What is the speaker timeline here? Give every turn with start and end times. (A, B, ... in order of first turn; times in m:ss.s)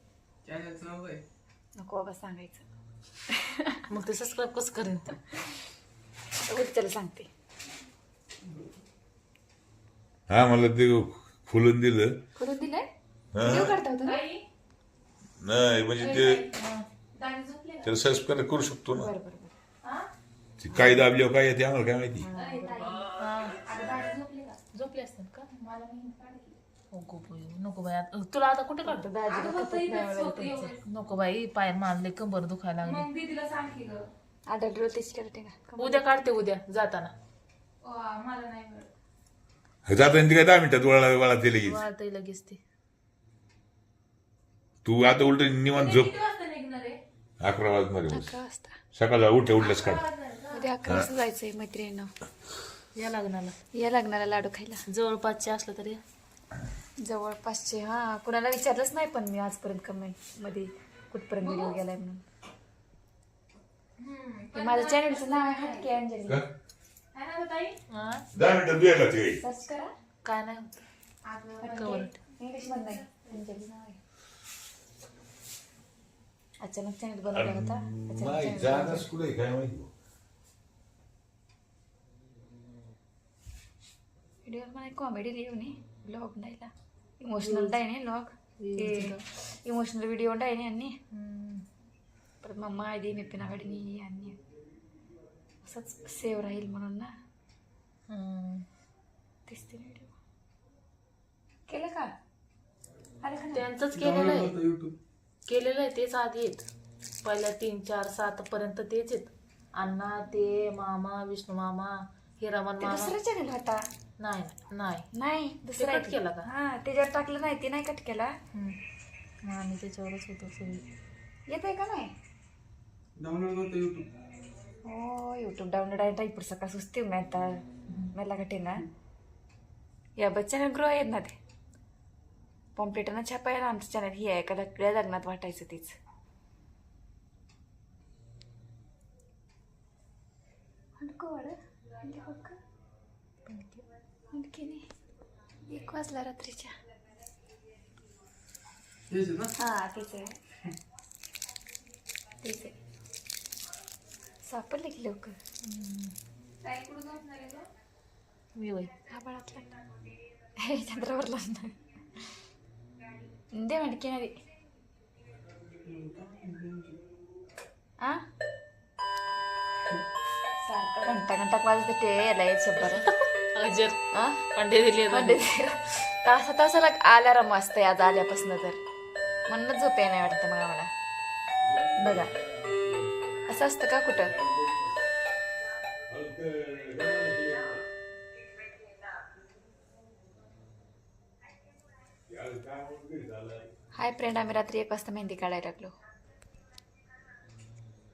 0:00.4-0:01.2 A
0:01.8-0:02.6 B
0:03.3-0:03.8 B
0:03.9-0:05.2 C
0:06.5-0:07.3 B
0:10.3-0:12.1 D
0:12.4-0:12.9 B
0:13.3-0:13.7 D
0:13.4-0:14.2 B
0:13.9-0:14.4 E
0:15.4-0:16.4 D
0:16.0-0:16.6 E
0:16.5-0:16.8 C
0:17.1-0:17.9 E
0:17.8-0:19.1 D
0:18.9-0:19.5 B
0:19.8-0:20.1 E
0:20.6-0:22.3 D
0:22.2-0:23.0 B
0:22.3-0:23.0 E
0:23.2-0:23.6 C
0:23.6-0:24.6 E
0:24.7-0:25.5 C
0:25.5-0:26.6 E
0:26.9-0:29.0 C
0:28.8-0:30.7 B
0:29.3-0:30.8 E
0:30.8-0:33.0 C
0:32.8-0:34.0 E
0:34.5-0:36.1 B
0:35.8-0:37.1 C
0:37.8-0:38.9 E
0:39.8-0:41.8 D
0:41.6-0:42.6 C
0:44.8-0:46.1 D
0:45.7-0:47.0 E
0:47.4-0:48.4 D
0:48.1-0:48.8 B
0:48.9-0:50.0 D
0:49.6-0:50.7 E
0:50.5-0:52.1 B
0:52.9-0:53.6 C
0:53.7-0:54.8 B
0:54.9-0:56.0 C
0:57.0-1:02.2 B
1:01.4-1:01.8 E
1:04.0-1:06.0 E
1:04.5-1:06.4 B
1:07.1-1:07.8 E
1:07.9-1:08.2 C
1:08.3-1:09.4 D
1:09.4-1:09.9 B
1:10.2-1:10.8 C
1:11.2-1:13.4 E
1:11.6-1:14.0 B
1:11.6-1:12.1 C
1:16.6-1:19.1 B
1:17.3-1:19.9 D
1:24.4-1:31.0 B
1:27.4-1:27.8 C
1:28.6-1:29.2 C
1:31.1-1:31.6 C
1:32.4-1:34.4 B
1:35.6-1:37.1 B
1:38.1-1:38.6 C
1:39.5-1:40.1 B
1:41.7-1:42.1 B
1:43.2-1:43.6 B
1:43.5-1:44.6 C
1:43.9-1:45.0 A
1:45.5-1:46.6 C
1:47.2-1:53.1 C
1:52.8-1:53.8 B
1:54.2-1:55.0 C
1:55.1-1:58.3 B
1:55.8-1:56.5 C
1:59.4-2:00.8 C
2:01.5-2:02.1 B
2:03.2-2:04.1 A
2:04.8-2:07.6 B
2:08.1-2:08.8 B
2:10.2-2:11.3 B
2:12.8-2:15.9 B
2:21.0-2:22.6 B
2:23.5-2:23.8 C
2:24.3-2:24.8 B
2:25.7-2:26.7 B
2:29.1-2:29.5 A
2:29.6-2:30.3 B
2:32.4-2:32.8 B
2:34.4-2:35.4 B
2:35.6-2:36.1 C
2:36.6-2:37.7 E
2:38.6-2:38.9 C
2:39.1-2:39.7 B
2:40.6-2:41.7 B
2:43.6-2:44.3 B
2:45.8-2:47.0 A
2:50.6-2:53.0 B
2:52.8-2:54.0 C
2:54.5-2:55.4 C
2:55.1-2:58.8 B
2:59.5-3:00.9 B
3:01.7-3:02.9 D
3:02.0-3:02.3 B
3:03.5-3:04.3 B
3:04.2-3:05.0 D
3:06.1-3:07.8 D
3:12.3-3:13.7 D
3:13.9-3:15.9 B